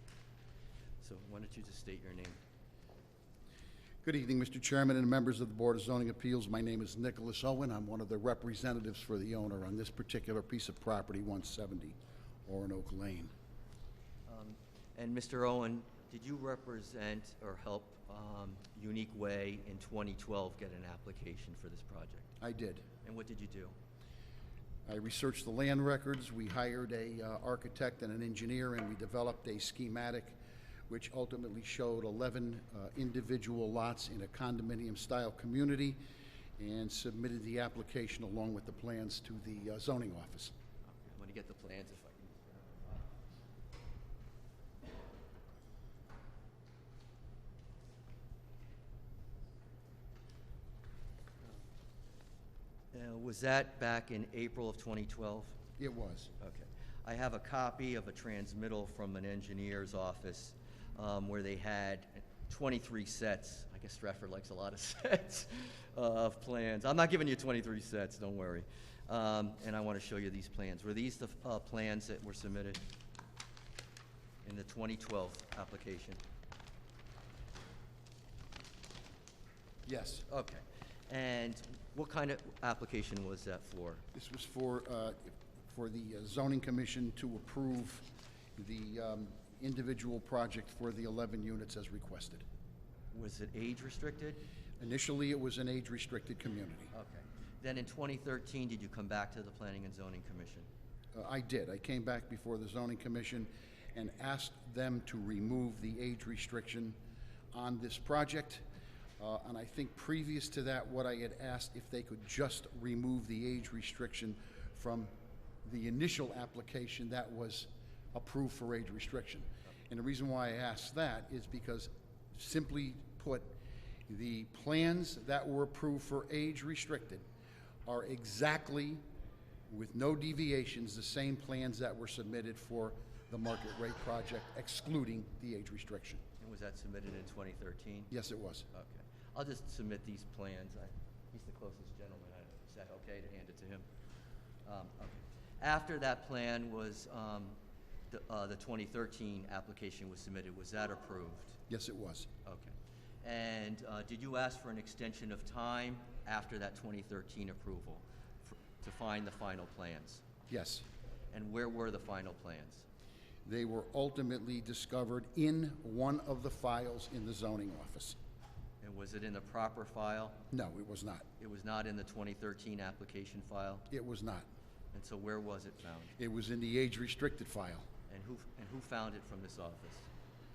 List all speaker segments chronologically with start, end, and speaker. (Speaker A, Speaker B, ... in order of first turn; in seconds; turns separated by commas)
Speaker A: 1.0-2.4, Speaker B: 4.0-13.3, Speaker A: 14.3-22.3, Speaker B: 22.4-22.9, Speaker A: 23.0-23.8, Speaker B: 24.9-30.4, Speaker B: 30.9-36.0, Speaker B: 36.6-40.5, Speaker A: 40.9-43.0, Speaker A: 52.9-55.6, Speaker B: 55.8-56.3, Speaker A: 56.4-72.8, Speaker A: 74.4-76.2, Speaker B: 79.9-80.2, Speaker A: 80.3-84.0, Speaker B: 84.1-92.5, Speaker A: 93.1-94.4, Speaker B: 94.8-96.9, Speaker A: 96.9-100.7, Speaker B: 101.1-107.0, Speaker B: 107.5-108.6, Speaker B: 109.2-115.1, Speaker B: 115.6-127.2, Speaker B: 127.8-129.0, Speaker B: 129.7-136.2, Speaker A: 136.4-138.1, Speaker B: 138.1-138.7, Speaker A: 138.7-143.8, Speaker A: 144.6-147.6, Speaker A: 148.1-151.6, Speaker B: 151.7-152.3, Speaker A: 152.4-160.2, Speaker B: 160.5-160.8, Speaker A: 161.3-162.8, Speaker B: 163.4-168.2, Speaker A: 168.8-170.4, Speaker B: 170.5-171.2, Speaker A: 171.4-173.9, Speaker B: 173.9-174.5, Speaker A: 174.9-176.2, Speaker B: 176.2-177.8, Speaker A: 178.1-180.1